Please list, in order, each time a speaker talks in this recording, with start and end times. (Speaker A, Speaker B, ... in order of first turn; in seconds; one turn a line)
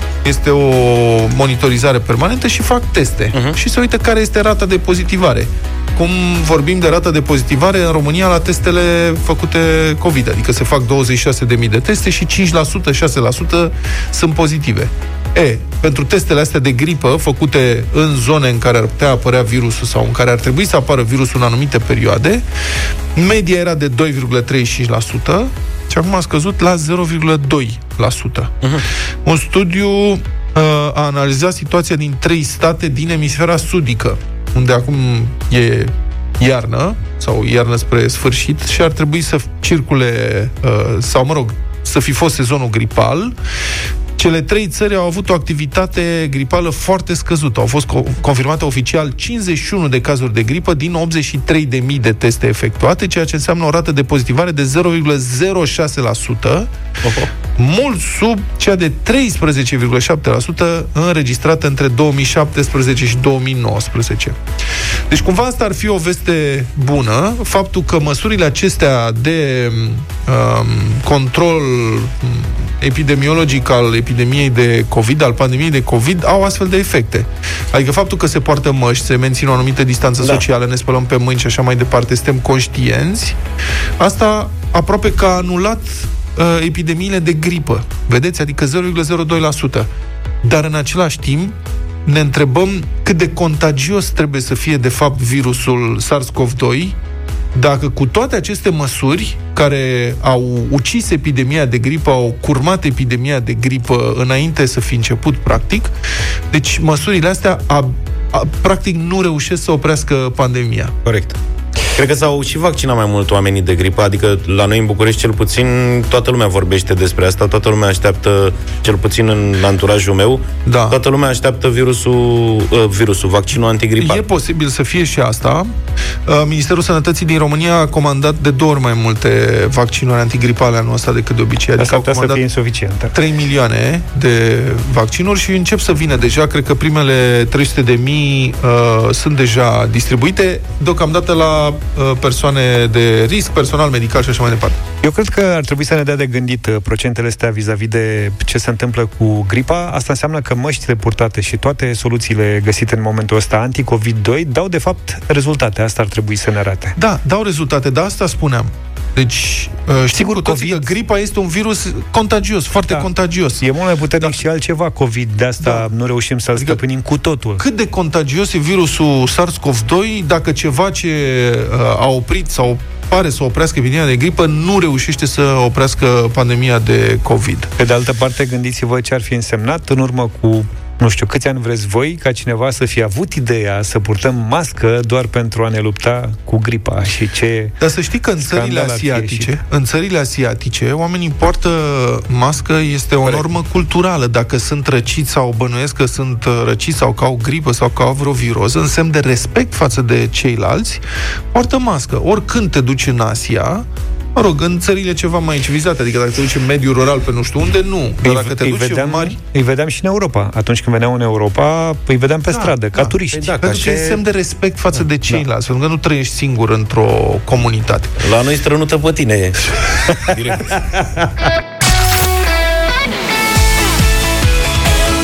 Speaker A: 0.2-22.4
Speaker A: 23.1-28.5
Speaker A: 29.2-43.4
Speaker A: 44.2-56.7
Speaker A: 57.6-64.4
Speaker A: 65.1-83.4
Speaker A: 84.0-89.9
Speaker A: 90.4-97.0
Speaker A: 97.5-105.9
Speaker A: 106.5-110.9
Speaker B: 111.0-111.4
Speaker C: 112.0-124.2
Speaker A: 120.7-121.0
Speaker A: 124.0-125.7
Speaker A: 126.3-132.4
Speaker B: 131.8-133.1
Speaker A: 133.1-144.8
Speaker B: 145.0-157.0
Speaker A: 157.0-163.7
Speaker B: 160.2-160.9
Speaker B: 163.6-167.6
Speaker A: 167.6-177.7
Speaker B: 177.8-187.7
Speaker A: 187.8-209.4
Speaker B: 188.4-189.6
Speaker B: 208.2-213.5
Speaker C: 213.3-214.2
Speaker A: 213.6-218.1
Speaker C: 218.2-219.6
Speaker C: 220.3-220.8